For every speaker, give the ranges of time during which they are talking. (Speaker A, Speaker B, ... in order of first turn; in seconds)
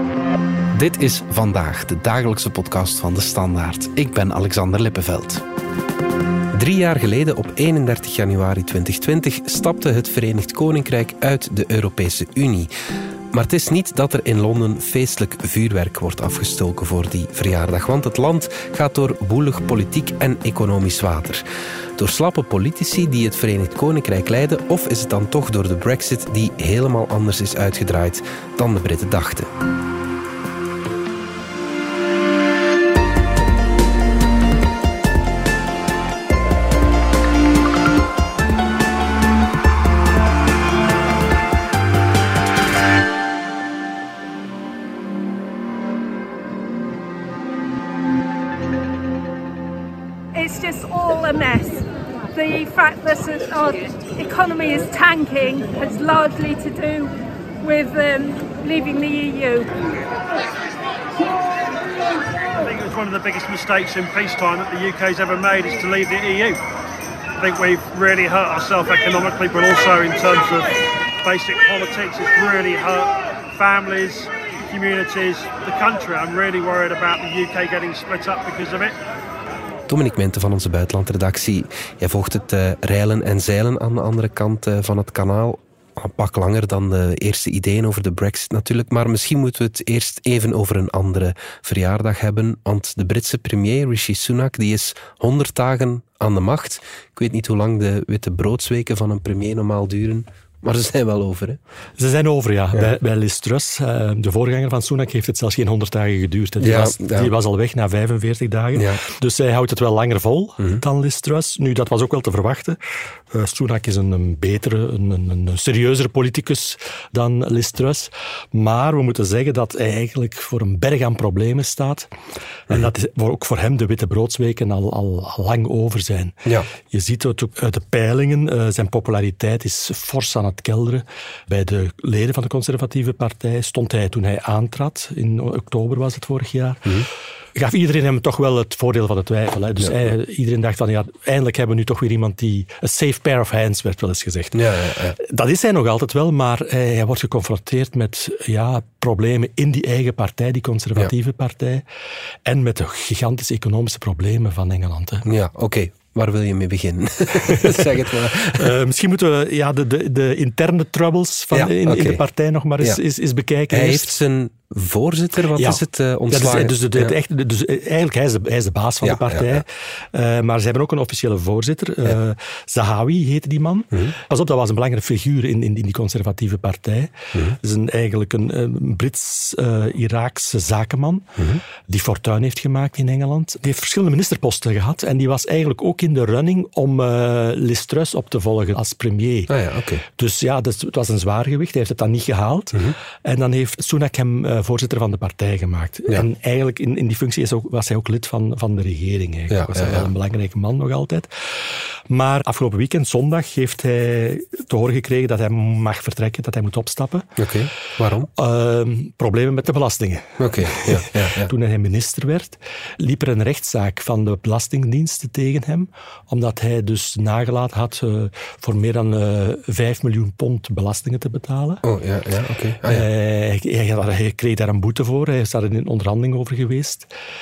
Speaker A: 0.7-5.4, 6.5-12.7, 13.3-21.4, 21.9-29.5, 79.9-101.6, 106.6-107.3, 108.7-109.0, 139.8-140.1, 144.5-145.2, 155.2-158.7, 161.5-162.2, 163.7-167.1, 169.0-169.6, 189.5-190.0, 199.5-200.1, 207.4-208.3, 210.4-211.5, 221.8-223.1
Speaker B: 50.3-59.8
Speaker C: 62.6-66.6, 67.4-78.9
Speaker D: 102.0-112.8, 113.3-122.1, 122.7-126.4, 126.9-137.0, 137.5-151.8, 152.4-155.3, 157.4-164.1, 165.5-181.3, 181.9-189.5, 190.1-207.3, 208.3-221.8, 222.8-227.1